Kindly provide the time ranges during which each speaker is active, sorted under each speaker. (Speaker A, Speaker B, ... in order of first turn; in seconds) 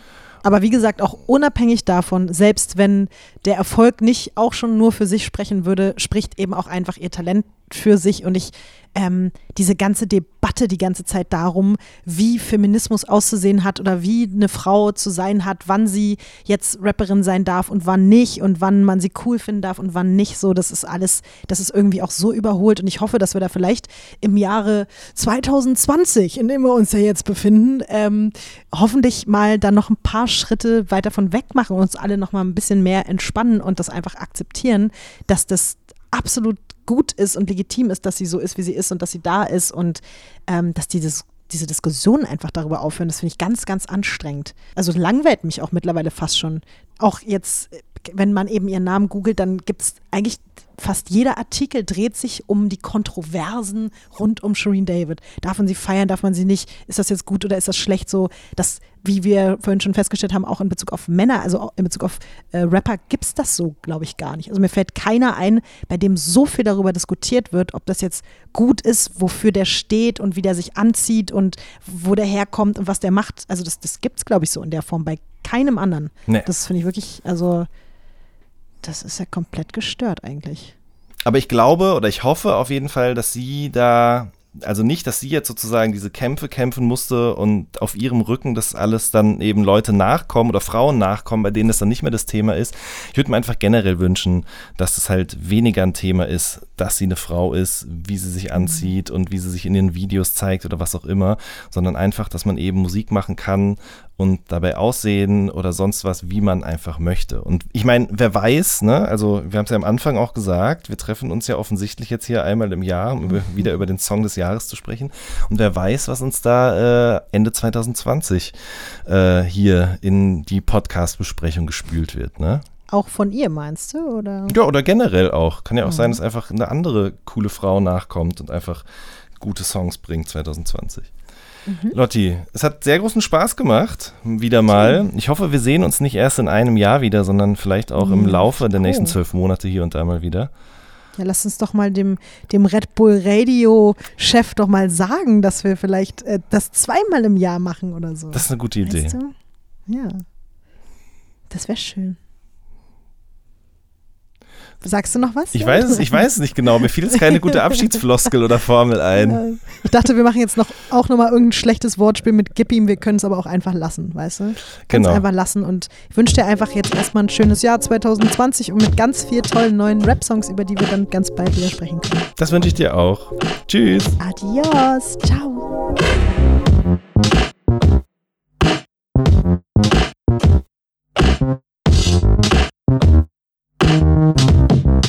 Speaker A: 0.4-77.7, 78.8-80.8, 122.9-124.6, 125.8-126.2, 131.7-132.0, 134.8-135.0, 138.0-139.2, 141.2-149.3, 149.9-150.2, 151.5-152.2, 154.8-156.3, 157.1-157.6, 159.2-172.3, 174.2-175.7
Speaker B: 81.2-122.6, 124.5-128.8, 129.4-131.1, 131.9-140.5, 148.3-149.2, 155.5-159.4, 164.9-165.2, 172.4-174.2